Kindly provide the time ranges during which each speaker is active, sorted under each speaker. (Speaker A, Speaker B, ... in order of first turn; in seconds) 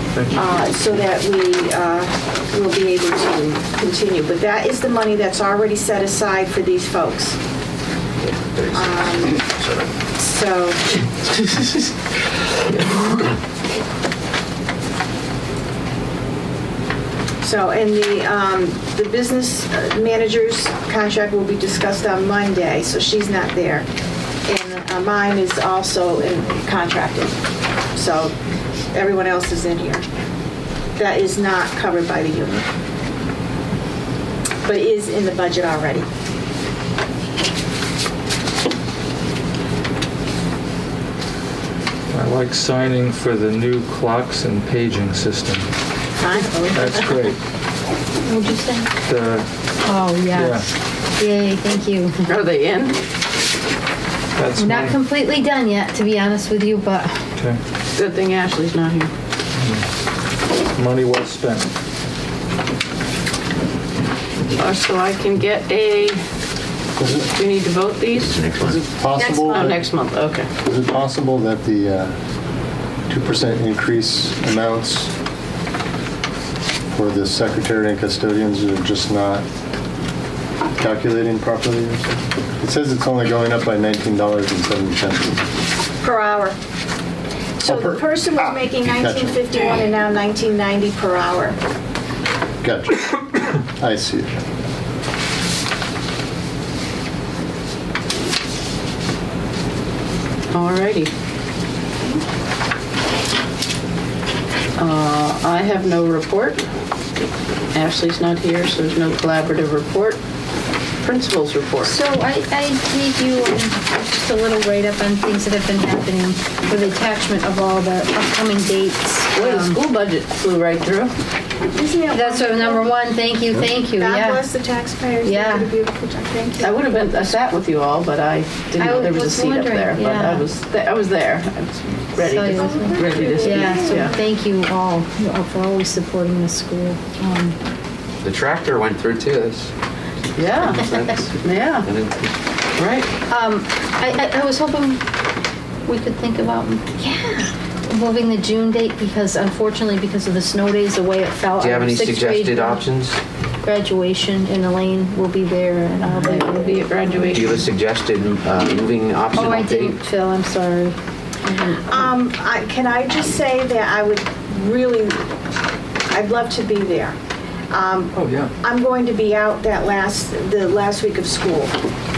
Speaker A: 0.1-0.5, 42.1-45.7, 46.7-47.4, 49.1-49.5, 50.3-50.7, 54.4-55.0, 59.6-59.9, 60.8-61.7, 168.2-168.5
Speaker B: 0.3-7.4, 8.7-9.5, 10.2-10.9, 17.4-23.9, 24.5-27.4, 27.9-28.4, 28.9-30.1, 31.0-32.7, 34.7-36.1, 46.2-47.3, 86.0-86.6, 87.6-91.6, 121.7-122.9, 124.0-127.2, 132.5-134.2, 161.8-165.2, 166.1-167.2, 167.7-171.8
Speaker C: 8.2-9.9, 68.2-68.8, 138.2-139.7, 140.4-142.3, 151.6-153.2, 157.2-160.0
Speaker D: 48.2-49.0, 49.8-52.3, 54.6-57.2, 69.2-69.5, 111.8-119.8, 122.1-124.5, 125.2-125.7, 128.8-130.5, 132.2-137.5, 143.3-145.0, 145.9-152.8, 153.6-156.9, 159.3-162.2
Speaker E: 52.3-53.0, 58.0-59.1, 64.5-66.2, 67.3-68.5, 69.2-70.5, 100.5-101.1, 104.8-106.6, 107.7-110.2, 111.0-112.0, 119.3-121.1, 126.6-134.2, 140.4-141.9, 142.8-143.1, 156.1-157.7
Speaker F: 67.0-67.3, 68.6-70.0, 70.6-72.2, 73.1-75.1, 76.9-79.5, 80.8-85.5, 87.6-89.4, 92.6-94.3